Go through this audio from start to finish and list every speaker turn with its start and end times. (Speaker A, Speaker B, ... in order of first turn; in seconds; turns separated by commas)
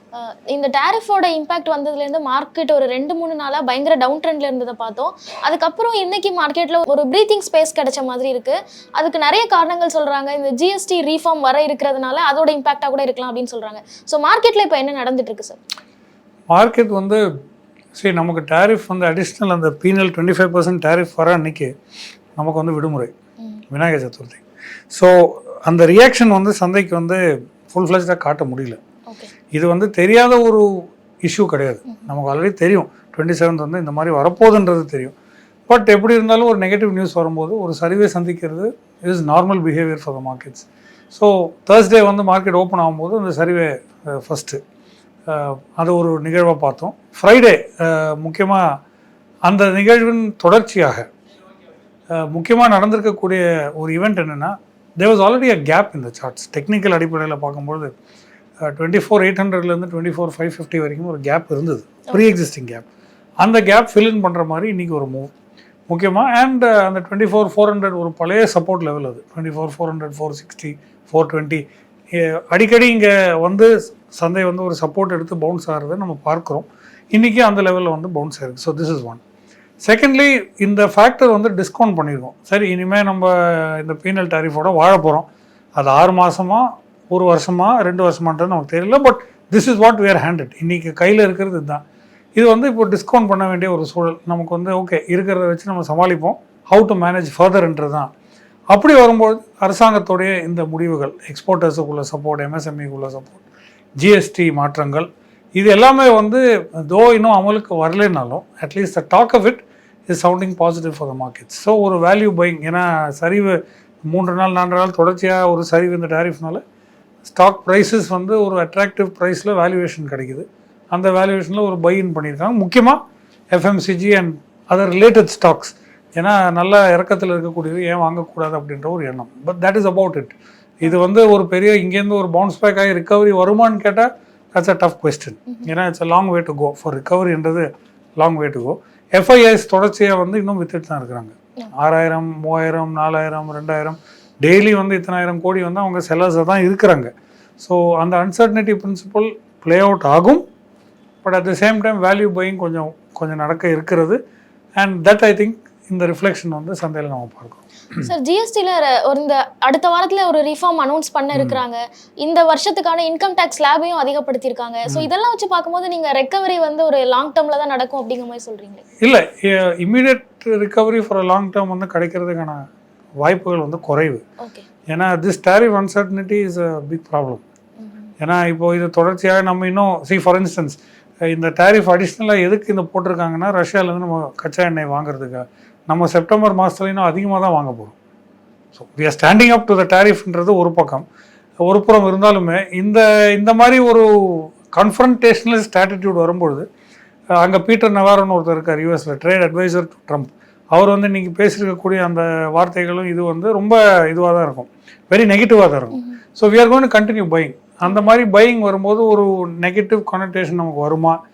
Speaker A: 0.1-15.6, Speaker B: 16.5-17.2, Speaker B: 17.9-21.7, Speaker B: 22.4-23.1, Speaker B: 23.7-28.8, Speaker A: 29.1-29.3, Speaker B: 29.5-35.1, Speaker B: 35.7-44.6, Speaker B: 45.3-48.8, Speaker B: 49.5-51.1, Speaker B: 52.1-57.9, Speaker B: 58.6-62.9, Speaker B: 63.4-65.3, Speaker B: 65.9-79.2, Speaker B: 79.8-91.8, Speaker B: 92.3-98.1, Speaker B: 98.7-103.4, Speaker B: 104.0-116.6, Speaker B: 117.2-123.0, Speaker B: 123.5-150.4, Speaker B: 151.2-154.2, Speaker B: 154.8-158.0, Speaker A: 158.0-168.8, Speaker B: 169.0-172.6, Speaker B: 173.2-174.2, Speaker A: 174.4-174.7, Speaker B: 174.9-177.4, Speaker A: 177.8-178.1, Speaker B: 178.2-188.0, Speaker B: 188.7-191.1, Speaker B: 191.6-196.7, Speaker B: 197.4-211.2, Speaker A: 205.9-206.2, Speaker A: 207.8-208.1